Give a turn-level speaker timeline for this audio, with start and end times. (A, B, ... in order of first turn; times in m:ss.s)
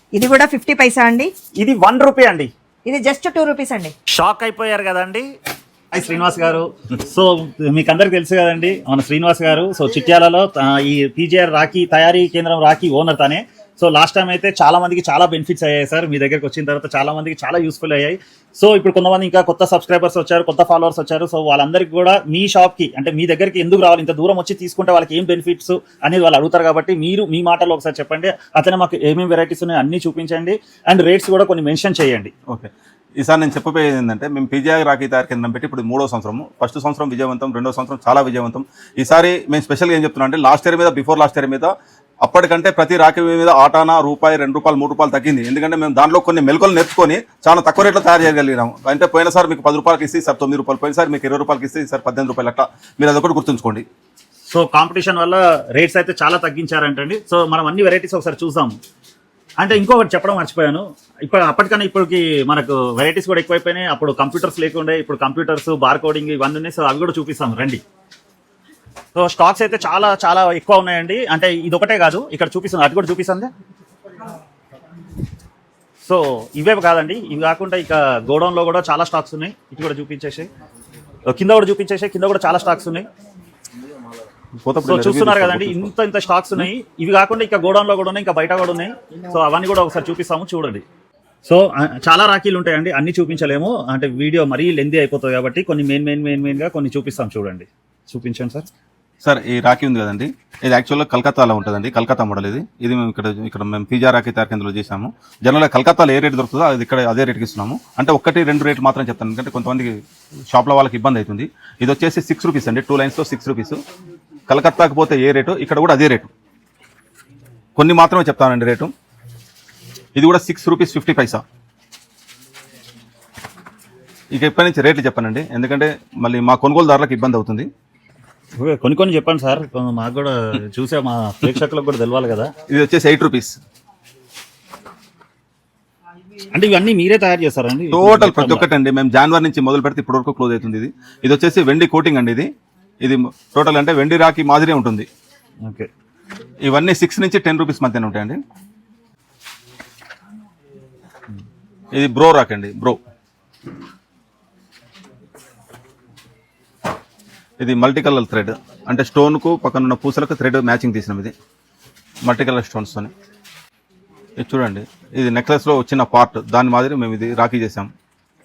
0:00.1-0:01.3 A
0:01.6-0:02.5 B
0:02.9-0:03.9 A
0:04.1-0:05.3 B
0:05.9-0:32.3 B
0:32.5-0:53.8 C
0:54.5-0:58.8 B
0:59.6-1:07.8 B
1:09.2-1:13.5 B
1:16.0-1:20.5 B
1:21.3-1:23.1 B
1:24.6-1:25.9 C
1:24.8-1:30.8 B
1:31.4-1:38.7 B
1:39.2-1:50.0 C
1:50.5-1:53.8 C
1:54.5-1:56.3 C
1:57.8-1:58.9 C
2:00.2-2:01.4 C
2:04.3-2:07.7 C
2:08.6-2:12.5 B
2:12.7-2:13.6 C
2:16.5-2:18.7 B
2:17.9-2:22.5 C
2:23.0-2:25.1 C
2:26.6-2:28.4 C
2:31.9-2:33.0 C
2:37.6-2:41.3 C
2:42.2-2:43.1 C
2:44.4-2:47.9 C